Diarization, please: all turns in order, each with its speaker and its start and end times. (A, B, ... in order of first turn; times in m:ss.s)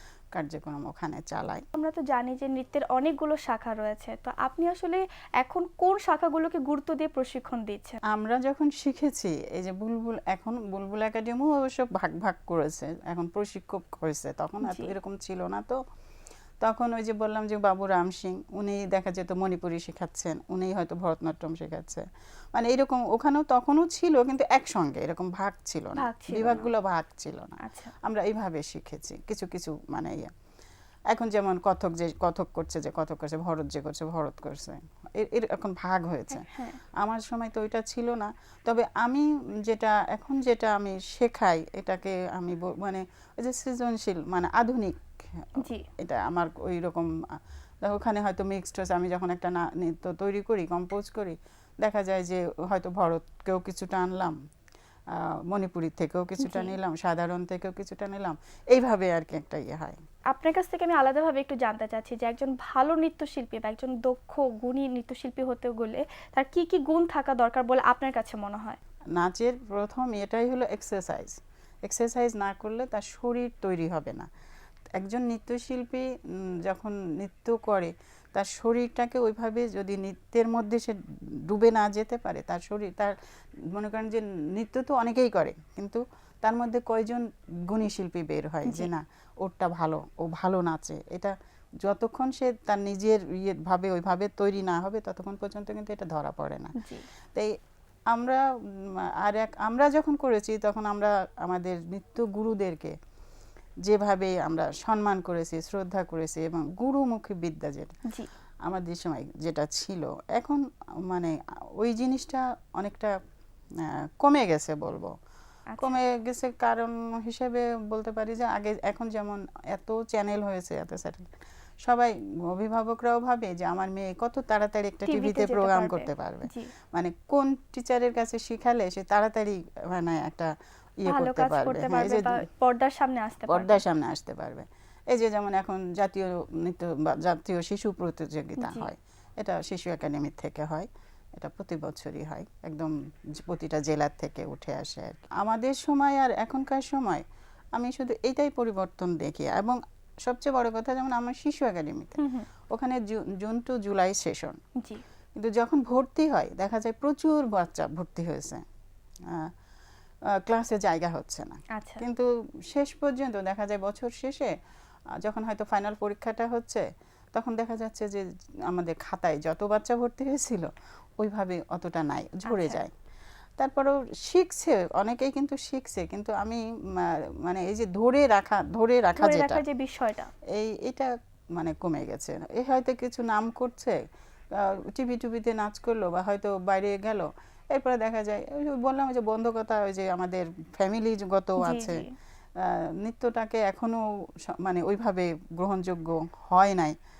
0:00.3-0:01.6 A
0:01.7-0:08.0 B
0:08.1-0:15.8 A
0:14.6-0:14.9 B
0:16.6-0:30.3 A
0:26.0-0:26.7 B
0:27.6-0:27.9 B
0:31.1-0:54.4 A
0:36.3-0:36.8 B
0:45.6-0:45.9 B
0:55.1-1:00.0 A
0:56.4-0:56.7 B
1:00.3-1:08.8 B
1:09.1-1:14.3 A
1:15.0-1:23.1 A
1:23.7-1:36.7 A
1:28.6-1:28.9 B
1:36.8-1:37.1 B
1:38.1-1:43.0 A
1:43.8-1:48.0 A
1:48.6-1:53.2 A
1:53.8-1:55.1 A
1:55.8-2:01.3 A
2:01.8-2:12.4 A
2:05.1-2:06.7 B
2:11.0-2:13.8 B
2:13.5-2:27.2 A
2:18.6-2:18.9 B
2:27.7-2:32.2 A
2:32.2-2:32.5 B
2:32.7-2:34.6 A
2:35.3-2:38.6 A
2:39.3-2:39.5 A
2:40.3-2:44.5 A
2:41.8-2:42.0 B
2:45.2-2:52.9 A
2:52.4-2:52.8 B
2:53.6-2:59.6 A
2:59.2-3:00.3 B
3:00.5-3:04.0 A
3:04.5-3:12.0 A
3:11.6-3:12.1 B
3:12.6-3:17.0 A